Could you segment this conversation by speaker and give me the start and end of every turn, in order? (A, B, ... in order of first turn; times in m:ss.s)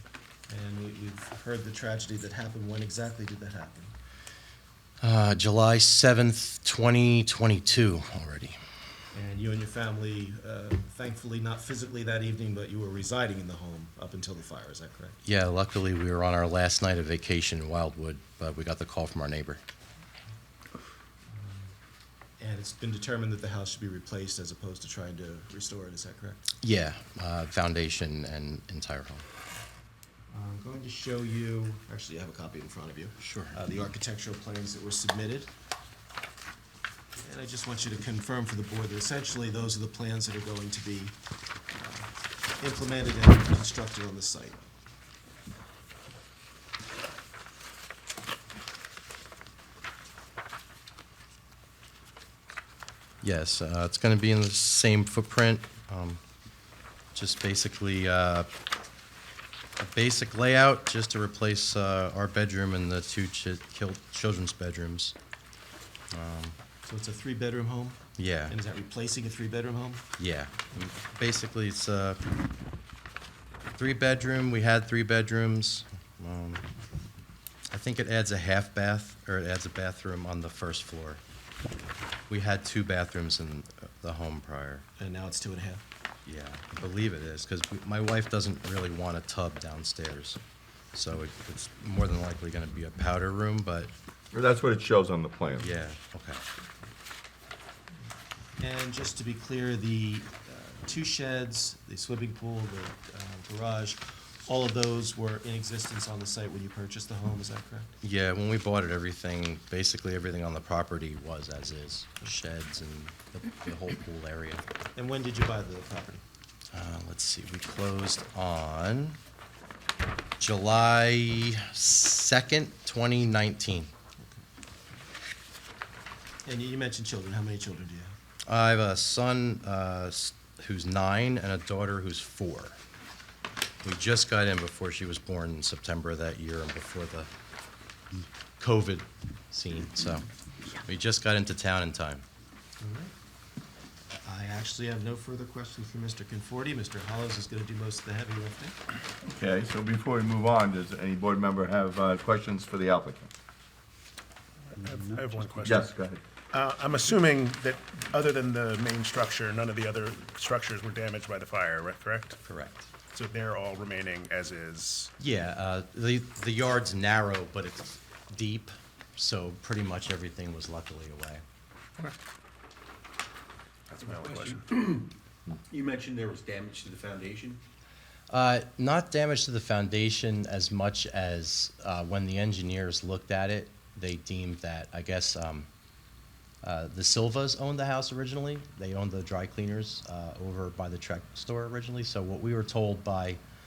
0:00.5-0:03.9 A
0:05.0-0:08.6 B
0:09.1-0:15.2 A
0:15.2-0:19.6 B
0:21.3-0:21.7 A
0:22.4-0:26.4 A
0:26.6-0:29.2 B
0:30.3-0:35.5 A
0:33.2-0:33.5 B
0:37.2-0:41.2 A
0:41.7-0:44.7 A
0:53.2-0:56.2 B
0:57.1-0:58.5 B
0:59.8-1:05.1 B
1:06.1-1:06.5 B
1:06.8-1:10.0 A
1:08.2-1:08.5 B
1:10.2-1:12.2 B
1:13.8-1:16.6 B
1:17.7-1:21.2 B
1:22.3-1:24.8 B
1:25.0-1:25.8 A
1:26.2-1:30.4 B
1:30.9-1:33.9 B
1:34.3-1:35.7 C
1:35.6-1:36.4 B
1:38.6-1:47.9 A
1:48.0-1:54.6 B
1:55.0-1:56.2 A
1:56.7-1:59.2 B
2:00.4-2:03.9 B
2:06.4-2:08.1 A
2:08.5-2:12.8 B
2:13.8-2:17.3 B
2:18.6-2:20.2 B
2:20.8-2:22.2 B
2:22.8-2:23.1 A
2:24.1-2:28.8 A
2:29.2-2:33.3 C
2:34.7-2:35.9 D
2:35.6-2:36.2 C
2:36.5-2:42.4 D
2:42.4-2:42.9 B
2:43.1-2:45.1 D
2:45.2-2:51.4 B
2:53.9-2:54.6 D
2:54.2-2:55.1 E
2:55.7-2:57.6 E
2:58.3-3:05.7 B
3:06.6-3:13.4 B